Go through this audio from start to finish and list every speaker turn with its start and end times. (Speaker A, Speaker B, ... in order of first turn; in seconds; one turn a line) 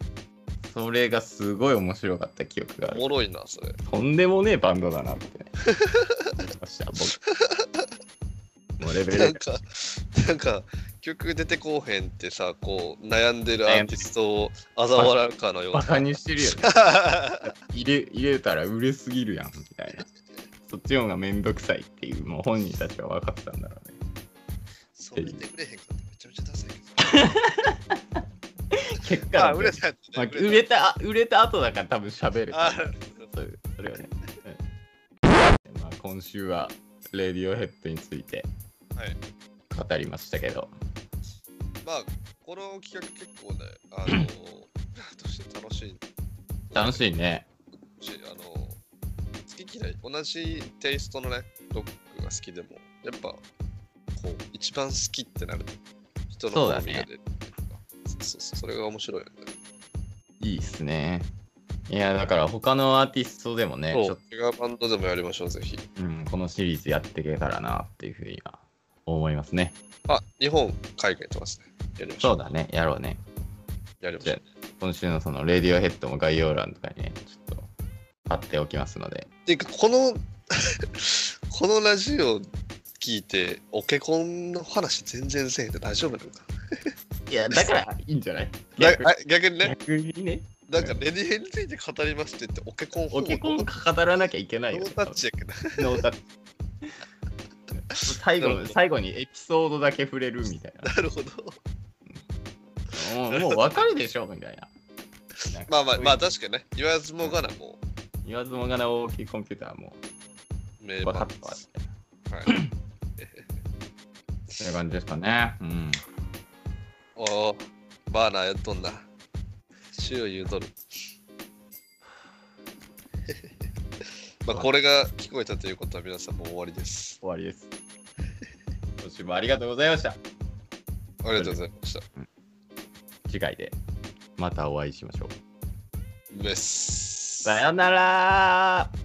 Speaker A: 0.6-3.1
Speaker B: 2.9-3.8
Speaker A: 3.9-5.5
Speaker B: 5.7-6.3
Speaker A: 6.4-7.2
Speaker B: 7.3-7.9
Speaker A: 8.8-9.4
Speaker B: 9.1-17.5
Speaker A: 13.7-14.0
Speaker A: 15.7-16.8
Speaker A: 17.4-20.1
Speaker A: 20.7-24.0
Speaker B: 25.0-27.3
Speaker A: 25.1-25.4
Speaker A: 27.1-28.2
Speaker A: 28.7-34.6
Speaker B: 29.3-30.6
Speaker B: 32.5-33.3
Speaker A: 35.6-38.5
Speaker A: 39.7-40.7
Speaker B: 41.8-46.0
Speaker B: 46.7-47.1
Speaker A: 46.7-47.5
Speaker B: 48.0-48.8
Speaker B: 49.5-53.4
Speaker B: 54.1-55.8
Speaker B: 56.3-59.5
Speaker A: 56.5-57.1
Speaker A: 60.4-61.3
Speaker A: 61.9-64.2
Speaker B: 63.9-65.8
Speaker A: 66.0-69.8
Speaker B: 70.1-72.5
Speaker A: 72.2-73.2
Speaker B: 74.0-74.4
Speaker A: 74.2-77.7
Speaker A: 78.3-79.3
Speaker B: 79.5-82.5
Speaker B: 83.0-86.9
Speaker A: 87.3-91.0
Speaker B: 88.8-89.7
Speaker B: 90.7-93.6
Speaker A: 93.1-95.2
Speaker B: 94.7-96.0
Speaker A: 95.8-96.2
Speaker B: 97.9-98.8
Speaker A: 98.0-101.0
Speaker B: 100.8-101.6
Speaker B: 102.9-103.6
Speaker A: 102.9-104.7
Speaker A: 105.5-106.3
Speaker B: 105.5-107.8
Speaker A: 108.2-110.0
Speaker B: 110.8-111.6
Speaker A: 111.0-111.8
Speaker B: 112.3-112.6
Speaker B: 113.2-113.5
Speaker A: 114.6-116.0
Speaker B: 117.2-119.0
Speaker B: 119.9-120.8
Speaker B: 124.5-127.2
Speaker A: 127.2-127.7
Speaker A: 129.0-130.2
Speaker B: 131.2-132.0
Speaker A: 133.3-133.8
Speaker A: 134.4-135.3
Speaker B: 136.3-137.6
Speaker A: 137.4-138.9